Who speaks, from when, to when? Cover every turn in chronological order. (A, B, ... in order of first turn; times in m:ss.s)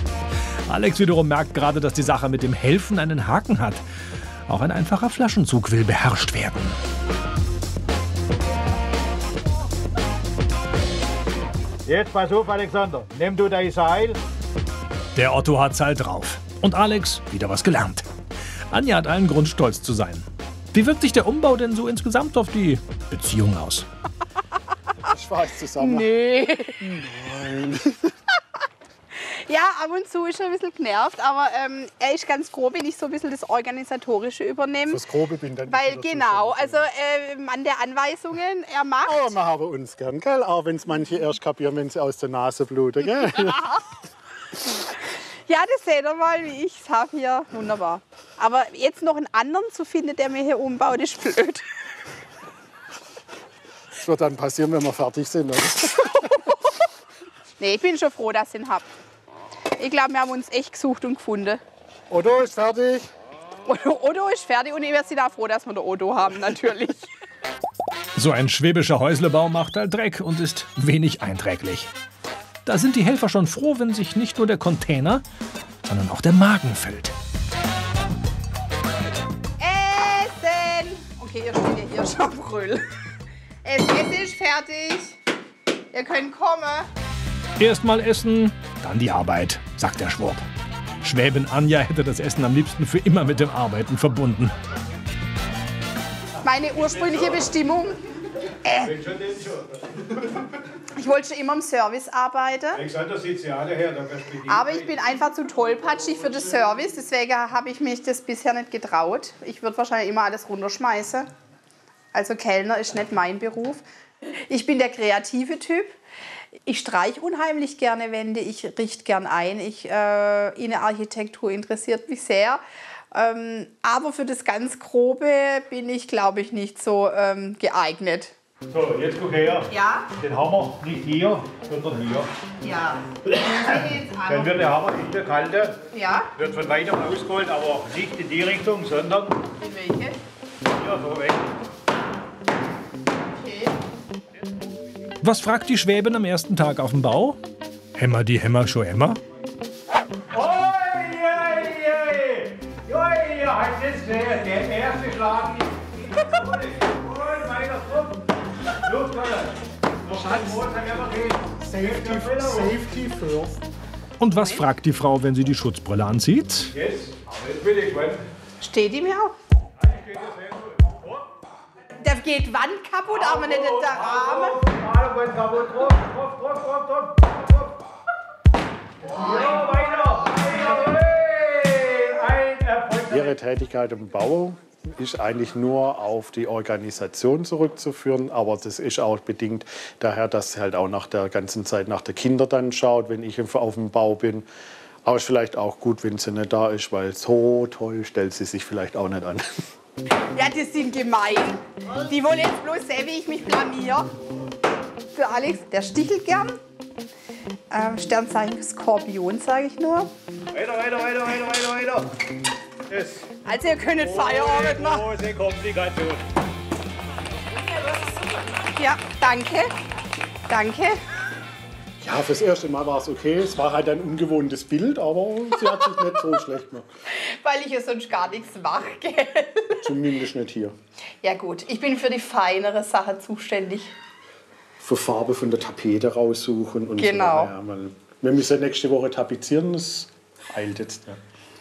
0:00.7-0:03.8 A
0:04.5-0:06.8 A
0:11.9-0:14.2 B
0:15.2-0:18.1 A
0:18.7-0:23.9 A
0:25.0-0:26.1 C
0:25.8-0:26.8 D
0:26.8-0:28.1 C
0:29.2-0:35.0 D
0:34.9-0:36.9 C
0:35.7-0:39.3 D
0:39.0-0:43.7 C
0:45.5-0:51.6 D
0:54.0-0:56.4 C
0:57.6-0:58.9 D
0:59.8-1:01.6 D
1:02.1-1:03.1 C
1:03.7-1:07.1 D
1:08.2-1:11.9 A
1:12.7-1:15.2 A
1:15.9-1:17.1 A
1:19.6-1:22.8 D
1:23.6-1:25.2 D
1:25.9-1:26.9 D
1:27.6-1:30.4 A
1:31.0-1:34.5 A
1:36.4-1:38.0 D
1:36.8-1:37.1 B
1:38.6-1:39.0 D
1:38.8-1:40.3 B
1:40.9-1:42.8 D
1:42.7-1:44.9 B
1:44.5-1:51.3 D
1:52.1-1:56.0 D
1:56.7-2:02.6 D
2:03.1-2:08.3 D
2:08.7-2:12.3 B
2:09.7-2:10.1 D
2:12.6-2:14.5 D
2:13.4-2:15.8 B
2:15.9-2:16.3 D
2:16.4-2:19.4 B
2:19.6-2:20.2 D
2:20.7-2:21.5 B
2:23.3-2:23.7 D
2:25.2-2:27.4 A
2:28.0-2:29.2 A
2:30.3-2:38.3 B
2:38.8-2:42.8 B
2:41.6-2:43.6 C
2:44.2-2:46.7 A
2:46.7-2:48.2 B
2:48.6-2:49.4 D
2:49.8-2:51.3 B
2:52.0-2:54.6 D
2:53.1-2:57.8 B
2:59.0-3:03.3 B
3:03.1-3:14.5 C
3:15.0-3:19.4 C
3:20.3-3:24.1 D
3:25.2-3:26.6 D
3:27.7-3:30.1 D
3:30.5-3:32.1 B
3:32.9-3:33.4 B
3:33.4-3:35.0 D
3:34.0-3:36.2 B
3:38.8-3:39.7 D
3:40.5-3:41.0 D
3:42.0-3:46.9 C
3:47.2-3:49.9 D
3:49.8-3:50.7 C
3:51.2-3:54.0 D
3:54.8-4:01.2 C
3:57.0-3:57.5 D